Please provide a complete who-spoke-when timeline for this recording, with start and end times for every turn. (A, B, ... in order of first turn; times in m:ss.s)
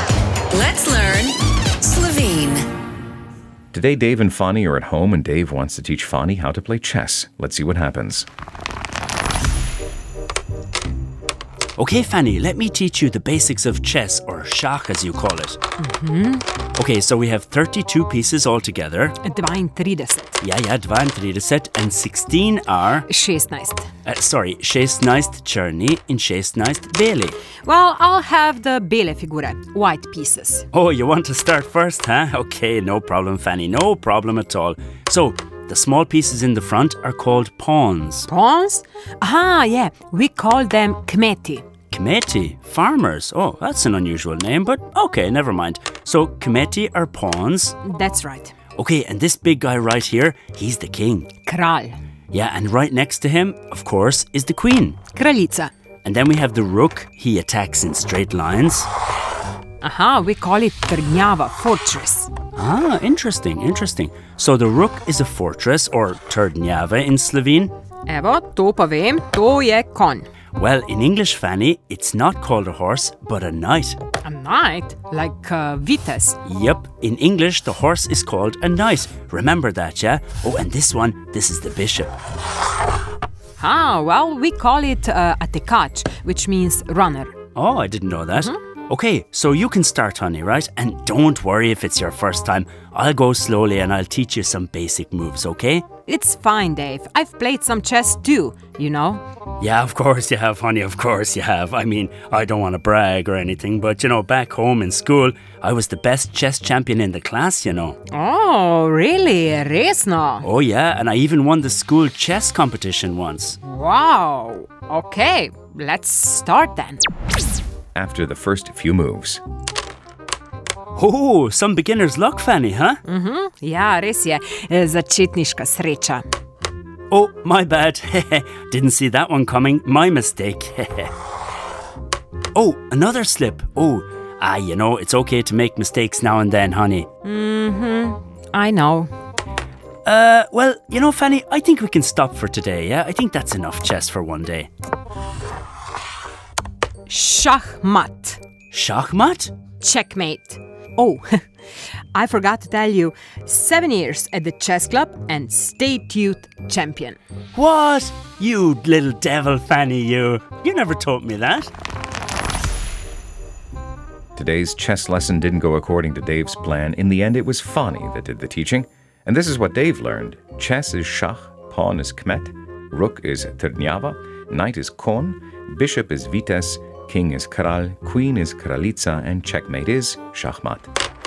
0:00.5-0:02.6 A
0:03.7-0:08.3 B
0:11.8-0:15.6 C
0:15.8-0:16.5 D
0:16.8-0:19.2 C
0:19.2-0:20.4 D
0:20.4-0:23.1 C
0:23.1-0:23.9 D
0:24.0-0:27.4 C
0:27.6-0:30.7 D
0:30.7-0:38.3 C
0:38.3-0:41.6 D
0:41.9-0:47.8 C
0:47.8-0:48.5 D
0:48.8-0:51.3 C
0:51.5-0:52.0 D
0:52.3-0:55.0 C
0:55.1-0:55.7 D
0:56.0-0:58.9 C
0:59.8-1:02.3 D
1:02.6-1:07.7 C
1:08.1-1:10.3 D
1:10.5-1:14.0 C
1:14.2-1:16.4 D
1:16.4-1:22.1 C
1:23.6-1:27.4 D
1:27.6-1:35.8 C
1:36.1-1:39.2 D
1:39.6-1:48.0 C
1:48.1-1:50.5 D
1:50.4-1:53.6 C
1:53.6-1:57.0 D
1:58.0-1:59.4 B
2:01.0-2:03.0 C
2:03.0-2:06.2 D
2:07.1-2:11.1 C
2:12.6-2:17.1 C
2:17.2-2:19.1 D
2:20.0-2:24.7 C
2:27.1-2:28.4 D
2:28.7-2:29.5 C
2:29.8-2:31.4 D
2:32.1-2:37.2 D
2:37.5-2:41.7 C
2:44.4-3:00.9 B